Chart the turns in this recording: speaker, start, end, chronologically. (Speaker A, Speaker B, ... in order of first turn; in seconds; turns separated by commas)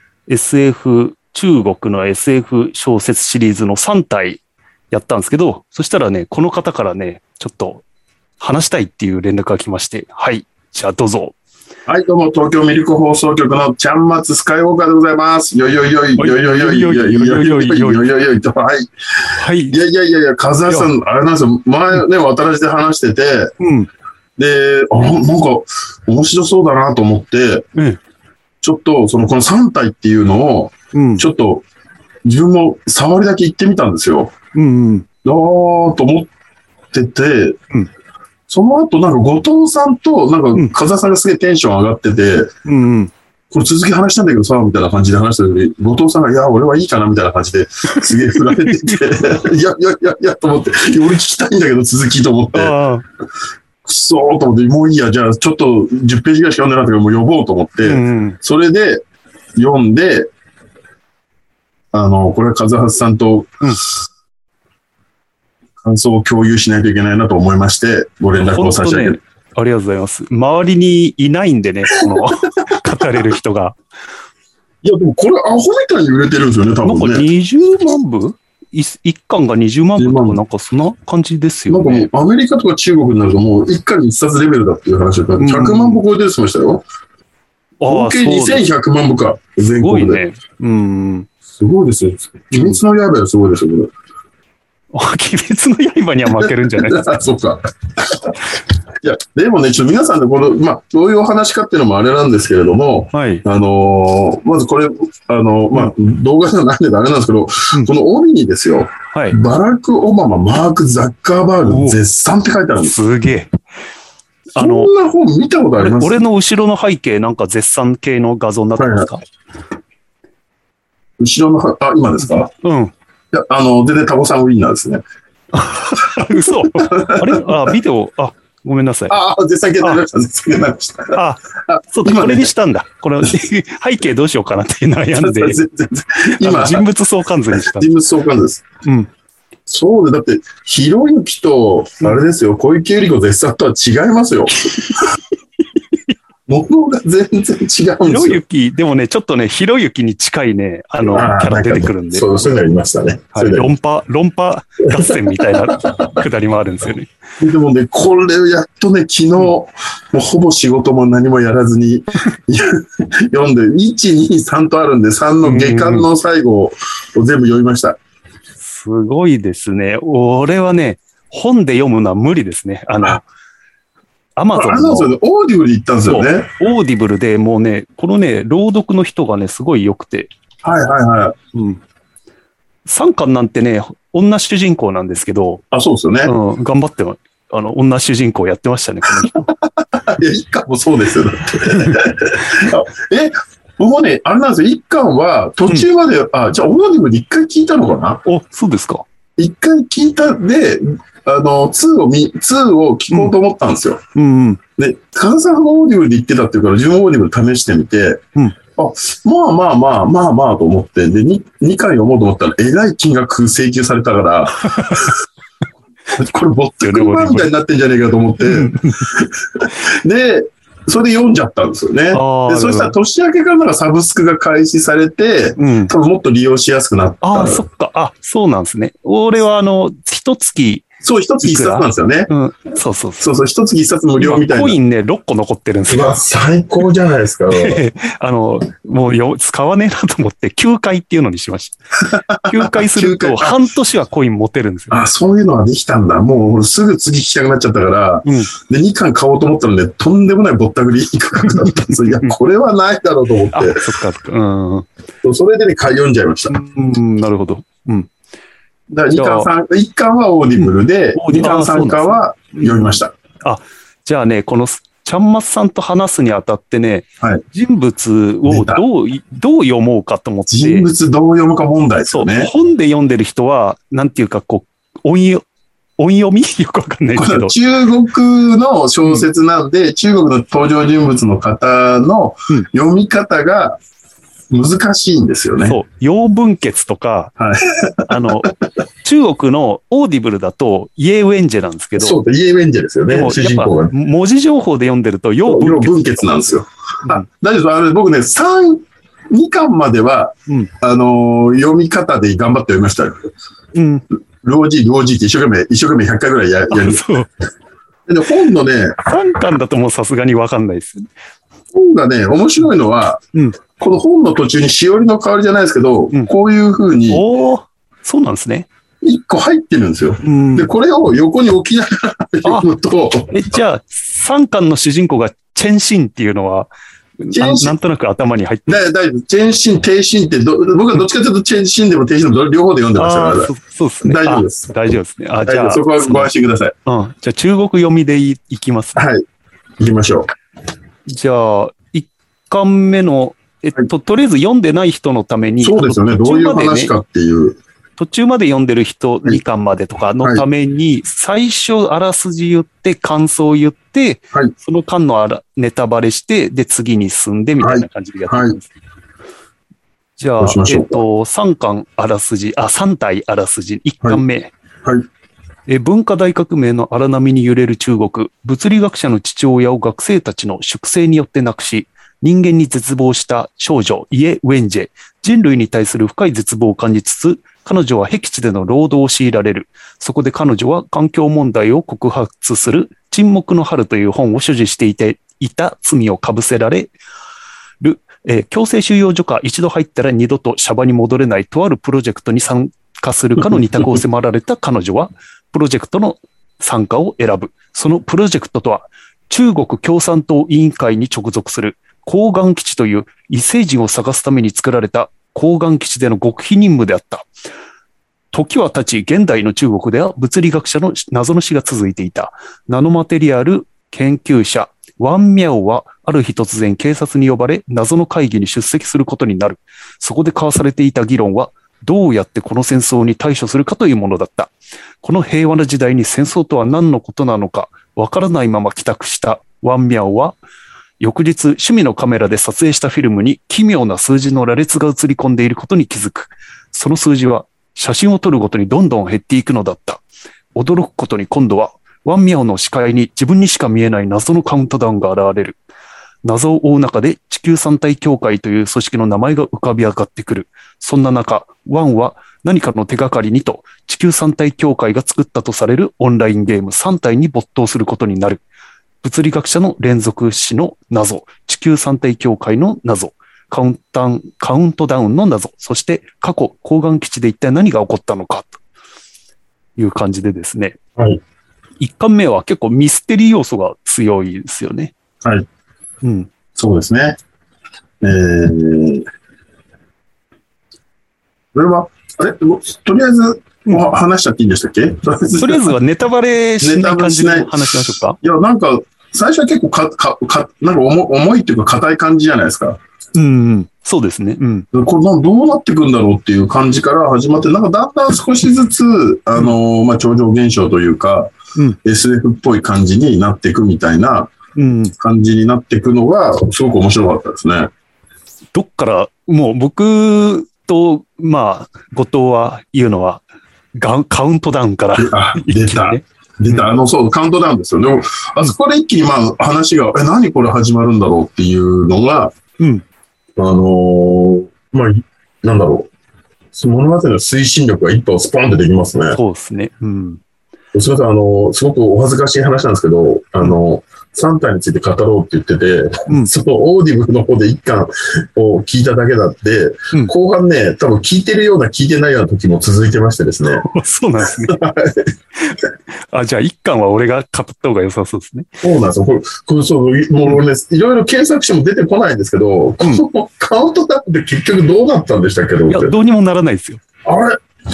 Speaker A: 0.3-7.8, Speaker A: 8.4-11.4, Speaker B: 11.9-18.9, Speaker A: 16.2-18.0, Speaker A: 19.4-19.8, Speaker B: 19.7-23.5, Speaker A: 23.6-23.9, Speaker B: 24.4-27.6, Speaker B: 28.6-31.6, Speaker A: 30.9-31.2, Speaker B: 32.2-34.3, Speaker A: 34.5-35.0, Speaker B: 35.2-36.3, Speaker B: 36.9-37.6, Speaker B: 38.5-42.5, Speaker A: 42.7-43.1, Speaker B: 43.5-52.7, Speaker A: 47.9-49.0, Speaker A: 52.5-53.0, Speaker B: 53.8-59.0, Speaker A: 57.8-58.4, Speaker B: 59.5-60.3, Speaker B: 61.9-63.6, Speaker B: 65.8-69.2, Speaker A: 68.4-73.8, Speaker B: 72.7-73.2, Speaker B: 74.8-77.3, Speaker A: 76.8-82.1, Speaker B: 80.0-80.4, Speaker B: 81.7-86.8, Speaker A: 85.4-86.0, Speaker A: 87.8-88.7, Speaker B: 87.9-90.2, Speaker A: 89.8-91.3, Speaker B: 91.5-93.9, Speaker A: 92.5-92.8, Speaker A: 94.9-97.1, Speaker B: 96.3-113.0, Speaker A: 103.1-103.4, Speaker A: 111.6-112.0, Speaker A: 112.8-113.5, Speaker A: 114.5-114.9, Speaker B: 114.5-116.2, Speaker A: 115.8-119.2, Speaker B: 118.8-119.1, Speaker B: 121.2-122.5, Speaker A: 122.2-122.9, Speaker B: 123.3-125.0, Speaker A: 125.5-129.2, Speaker B: 126.8-127.7, Speaker B: 129.1-132.5, Speaker A: 131.1-135.6, Speaker B: 135.2-136.8, Speaker A: 136.4-137.9, Speaker B: 137.5-138.7, Speaker A: 138.8-139.1, Speaker B: 139.7-145.1, Speaker A: 144.5-145.1, Speaker B: 146.5-148.4, Speaker A: 148.1-152.5, Speaker B: 151.0-153.7, Speaker A: 153.3-157.1, Speaker B: 154.9-156.1, Speaker B: 157.4-168.0, Speaker A: 165.4-166.1, Speaker A: 168.6-173.2, Speaker A: 174.3-175.1, Speaker B: 174.5-176.5, Speaker A: 176.1-180.3, Speaker B: 180.6-181.3, Speaker A: 181.5-181.8, Speaker A: 182.8-185.6, Speaker B: 185.7-186.3, Speaker A: 186.2-189.5, Speaker B: 189.3-198.2, Speaker A: 198.2-199.0, Speaker B: 199.4-204.0, Speaker A: 204.2-204.6, Speaker B: 204.8-208.2, Speaker B: 208.8-215.1, Speaker A: 214.7-215.1, Speaker B: 216.1-227.7, Speaker A: 216.8-217.5, Speaker A: 218.4-219.1, Speaker A: 222.1-222.9, Speaker A: 225.6-225.9, Speaker A: 227.2-230.9, Speaker B: 231.0-232.3, Speaker A: 231.4-233.3, Speaker B: 233.2-234.8, Speaker A: 234.2-236.2, Speaker B: 235.9-237.8, Speaker A: 237.5-241.8, Speaker B: 242.0-243.6, Speaker A: 242.4-245.0, Speaker B: 244.9-253.8, Speaker A: 248.2-248.5, Speaker A: 251.4-252.3, Speaker A: 253.5-254.9, Speaker B: 255.2-256.6, Speaker A: 256.5-258.1, Speaker B: 258.9-263.1, Speaker A: 259.1-259.5, Speaker A: 260.6-270.9, Speaker B: 268.5-268.8, Speaker B: 270.5-272.5, Speaker A: 272.1-275.4, Speaker A: 276.0-277.5, Speaker B: 277.1-283.8, Speaker B: 284.5-285.8, Speaker A: 285.7-287.3, Speaker B: 287.4-288.4, Speaker A: 288.1-288.5, Speaker A: 289.0-292.2, Speaker B: 292.0-293.9, Speaker A: 293.1-296.1, Speaker B: 295.4-303.2, Speaker A: 303.8-304.1, Speaker B: 304.4-307.0, Speaker A: 306.7-307.3, Speaker B: 308.1-309.0, Speaker A: 309.1-311.1, Speaker B: 311.7-313.2, Speaker B: 313.8-317.2, Speaker A: 317.1-318.7, Speaker B: 319.0-323.4, Speaker A: 320.2-320.7, Speaker A: 323.3-328.8, Speaker B: 327.3-327.8, Speaker B: 328.7-334.7, Speaker A: 333.0-336.3, Speaker B: 335.4-336.7, Speaker A: 336.9-339.0, Speaker B: 338.9-339.2, Speaker B: 339.8-340.3, Speaker A: 341.1-346.9, Speaker B: 345.6-347.6, Speaker A: 348.0-358.7, Speaker B: 357.6-358.6, Speaker A: 360.2-364.5, Speaker B: 360.4-361.0, Speaker A: 365.7-386.9, Speaker A: 387.8-407.3, Speaker A: 408.3-430.4, Speaker A: 431.0-440.0, Speaker A: 440.6-445.6, Speaker A: 446.2-458.4, Speaker A: 459.0-468.6, Speaker A: 469.8-470.8, Speaker A: 471.8-474.9, Speaker A: 476.0-476.3, Speaker B: 476.6-477.2, Speaker B: 478.0-479.1, Speaker B: 481.5-485.7, Speaker A: 485.4-488.2, Speaker B: 486.6-492.8, Speaker A: 493.1-494.6, Speaker B: 494.7-501.3, Speaker B: 501.8-504.3, Speaker A: 504.6-504.9, Speaker B: 505.0-507.7, Speaker A: 508.5-513.2, Speaker A: 513.8-516.7, Speaker B: 515.0-522.3, Speaker A: 522.6-522.8, Speaker B: 523.4-525.9, Speaker B: 526.5-529.2, Speaker A: 529.1-530.2, Speaker B: 530.7-543.7, Speaker A: 543.6-544.6, Speaker B: 544.3-545.1, Speaker A: 546.1-548.5, Speaker B: 548.6-556.0, Speaker A: 555.7-556.8, Speaker B: 557.1-557.4